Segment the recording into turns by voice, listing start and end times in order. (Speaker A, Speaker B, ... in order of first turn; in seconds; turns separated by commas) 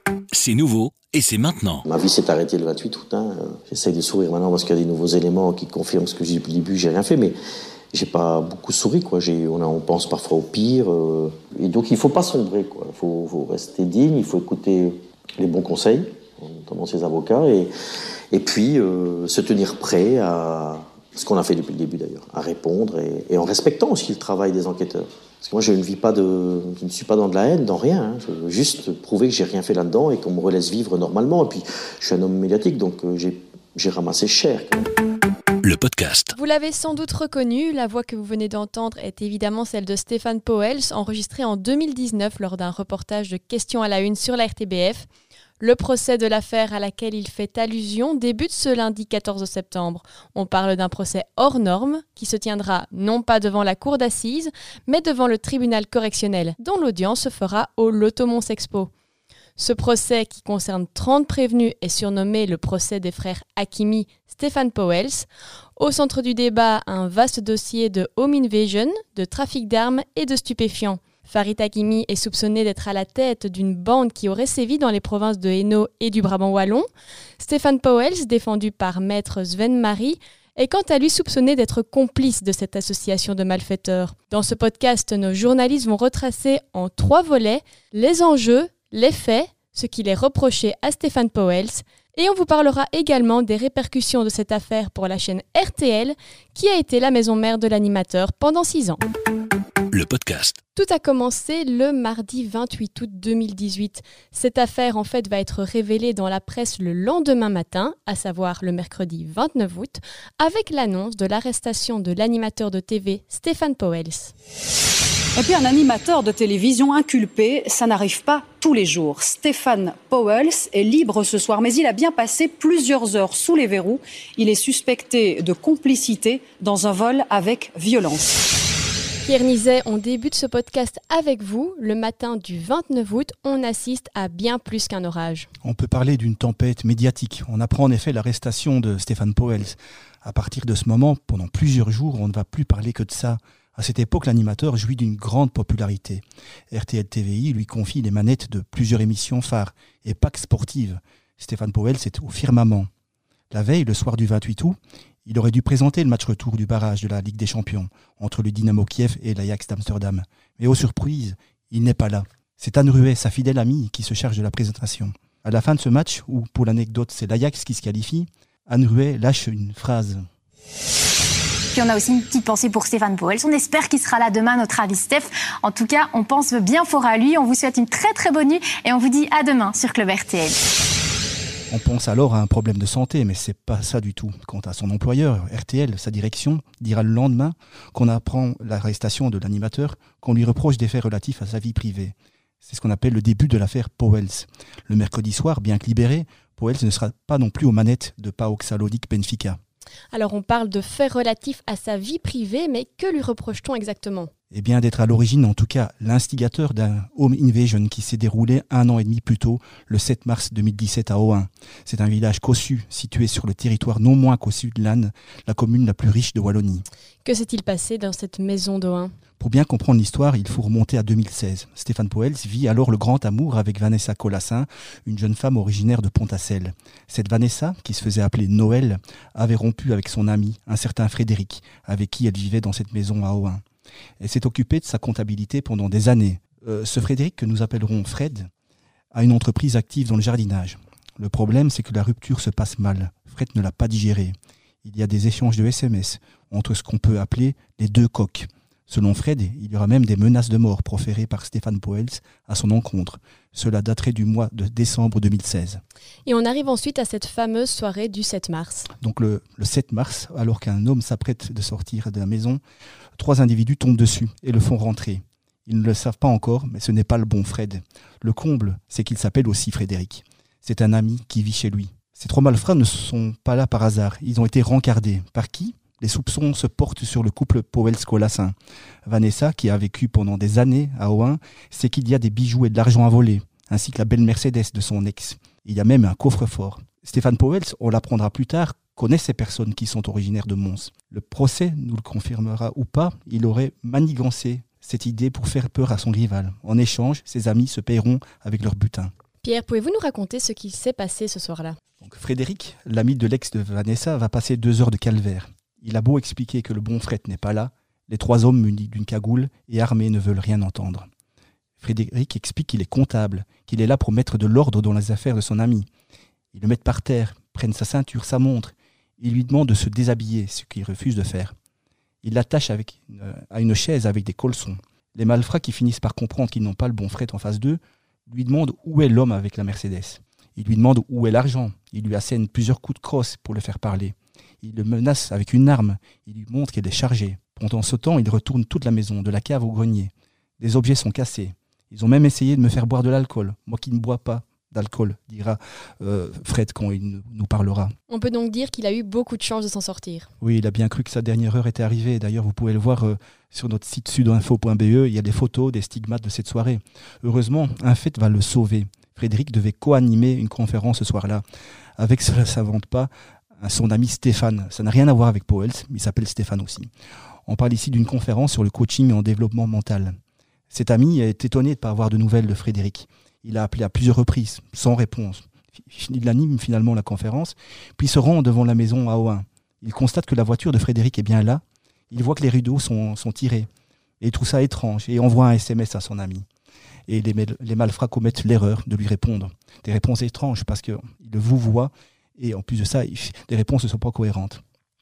Speaker A: 0.3-1.8, Speaker B: 1.9-7.3, Speaker B: 7.9-17.7, Speaker B: 18.3-34.9, Speaker A: 35.6-36.3, Speaker C: 36.3-45.1, Speaker C: 45.6-58.9, Speaker C: 59.6-76.9, Speaker C: 77.4-99.0, Speaker A: 99.9-100.6, Speaker C: 100.7-114.3, Speaker D: 115.3-128.4, Speaker C: 129.2-135.5, Speaker E: 135.6-152.9, Speaker E: 153.5-170.2, Speaker F: 171.7-180.6, Speaker E: 181.7-199.6, Speaker C: 200.1-204.3, Speaker E: 204.5-216.8, Speaker C: 217.2-219.1, Speaker E: 219.4-233.6, Speaker E: 234.2-238.5, Speaker E: 239.1-255.8, Speaker C: 256.2-258.9, Speaker E: 259.0-262.6, Speaker E: 263.2-278.5, Speaker E: 279.1-299.1, Speaker C: 299.4-301.8, Speaker E: 302.0-311.1, Speaker E: 311.8-315.9, Speaker E: 316.5-321.5, Speaker E: 322.2-347.9, Speaker C: 348.1-350.3, Speaker E: 350.4-361.4, Speaker E: 362.0-366.9, Speaker E: 367.5-370.1, Speaker E: 370.7-383.7, Speaker E: 384.2-386.4, Speaker E: 387.1-394.6